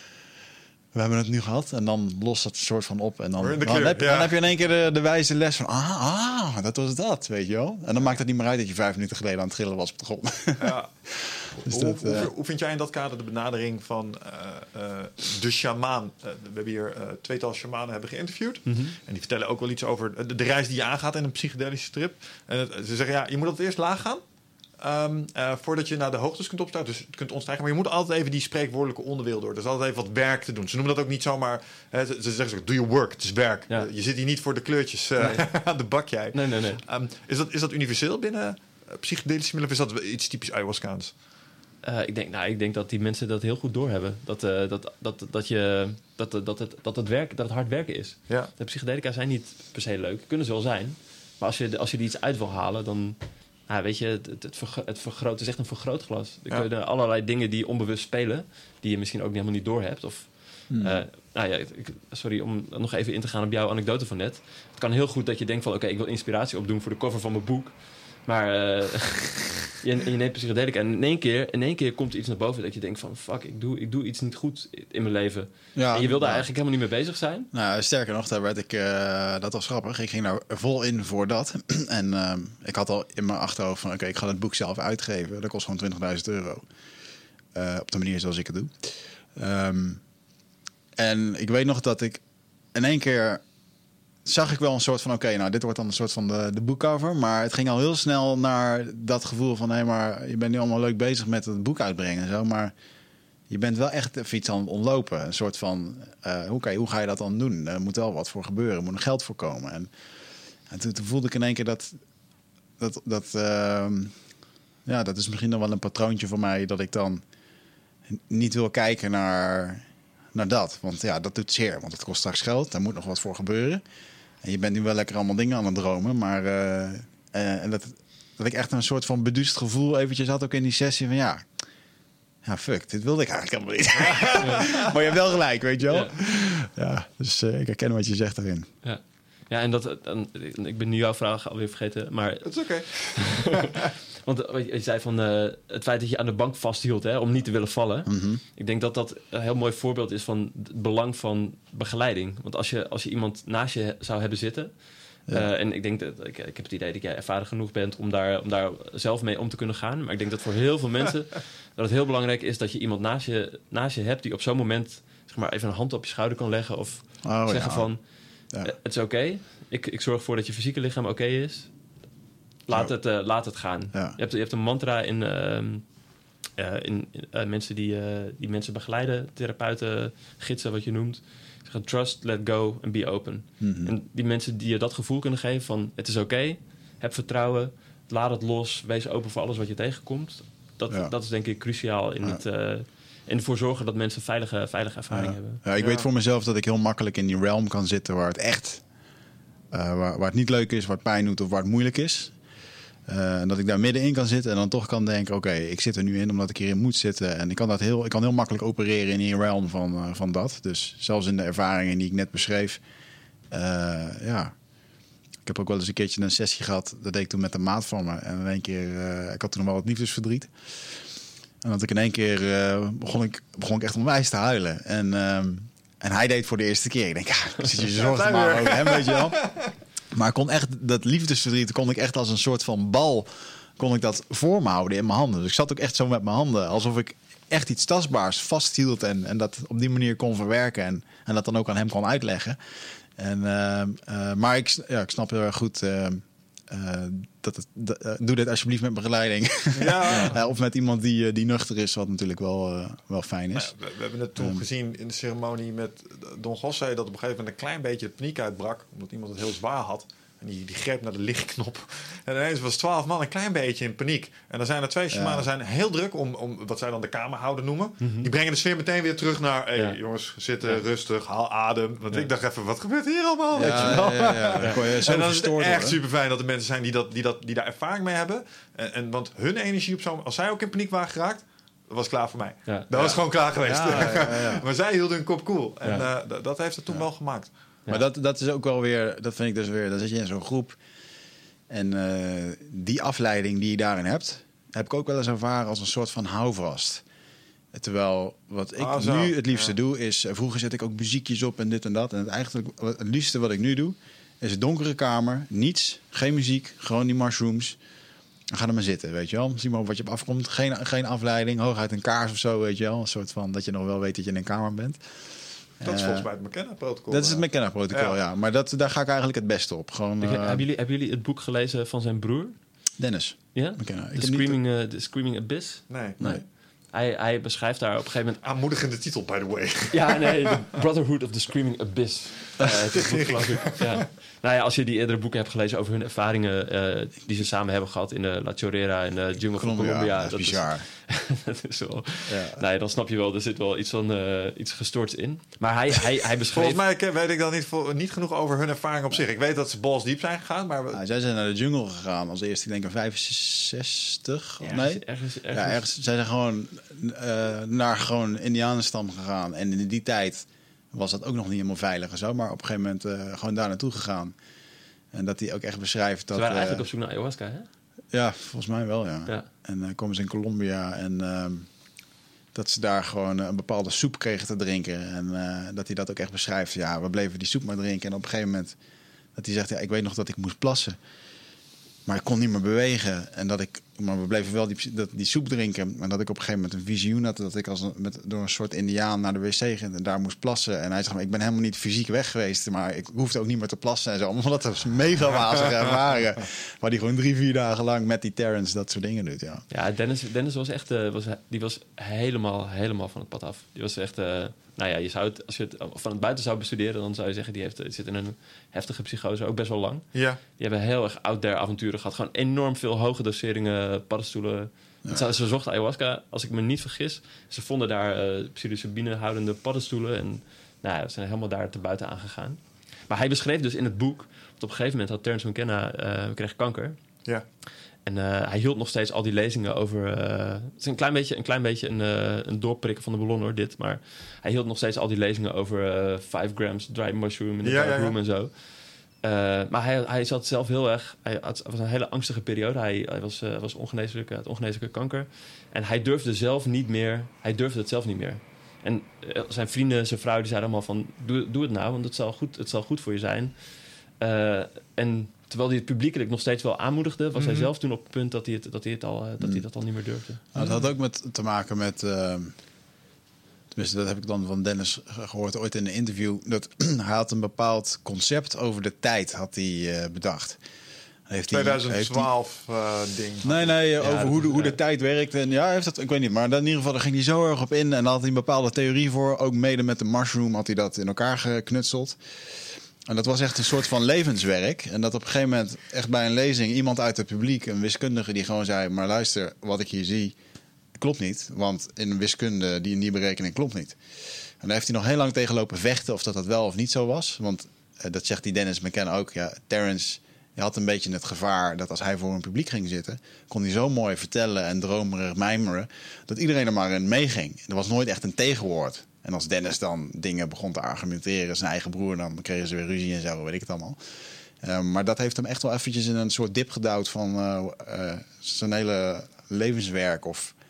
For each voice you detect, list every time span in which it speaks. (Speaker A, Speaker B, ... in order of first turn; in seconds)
Speaker A: 0.9-12.3, 60.7-61.0, 75.8-76.5, 77.5-86.7, 87.5-90.0, 91.0-92.2, 92.7-93.4, 94.2-102.7, 103.5-109.9, 110.7-112.0, 112.8-114.2, 114.9-117.2, 118.1-123.8, 124.4-131.5, 132.4-138.7, 148.1-148.4, 167.2-167.9, 173.9-174.2, 183.6-183.9, 195.1-198.8, 199.7-202.4, 203.1-212.8, 213.5-214.5, 215.4-221.0, 221.6-229.4, 230.1-242.6, 243.2-253.7, 254.4-254.6, 265.1-265.5, 273.5-276.0, 282.9-284.6, 287.9-290.8, 291.7-297.0, 297.7-307.8, 308.5-315.0, 315.8-316.3, 317.1-320.6, 323.0-324.6, 339.4-340.9, 342.3-342.6, 350.9-364.4, 365.1-366.8, 368.1-371.7, 372.5-378.8, 379.4-381.0, 382.1-399.6, 459.4-459.6, 460.5-462.5, 463.7-470.6, 471.3-472.3, 473.4-490.4, 490.9-514.0, 514.6-520.5
Speaker B: 3.4-4.3, 10.6-10.9, 11.5-24.2, 24.8-41.1, 134.0-134.9, 142.4-143.8, 195.7-196.1, 227.8-229.7, 249.7-250.4, 253.5-287.5, 298.8-299.7, 315.8-318.2, 325.9-326.4, 328.4-330.7, 332.6-334.0, 346.5-351.0, 410.1-410.4, 437.6-438.1, 457.4-457.7, 460.6-460.8, 471.5-473.7
Speaker C: 18.7-19.0, 35.2-35.5, 36.3-36.8, 41.8-77.5, 134.4-134.7, 135.9-136.2, 138.8-154.8, 155.3-168.0, 168.6-171.7, 172.7-175.8, 176.6-195.6, 268.0-268.3, 273.6-274.8, 285.8-286.1, 320.2-322.6, 323.5-328.4, 329.9-346.8, 354.6-355.8, 366.3-367.7, 399.7-427.0, 428.1-438.6, 439.2-460.4, 474.0-474.8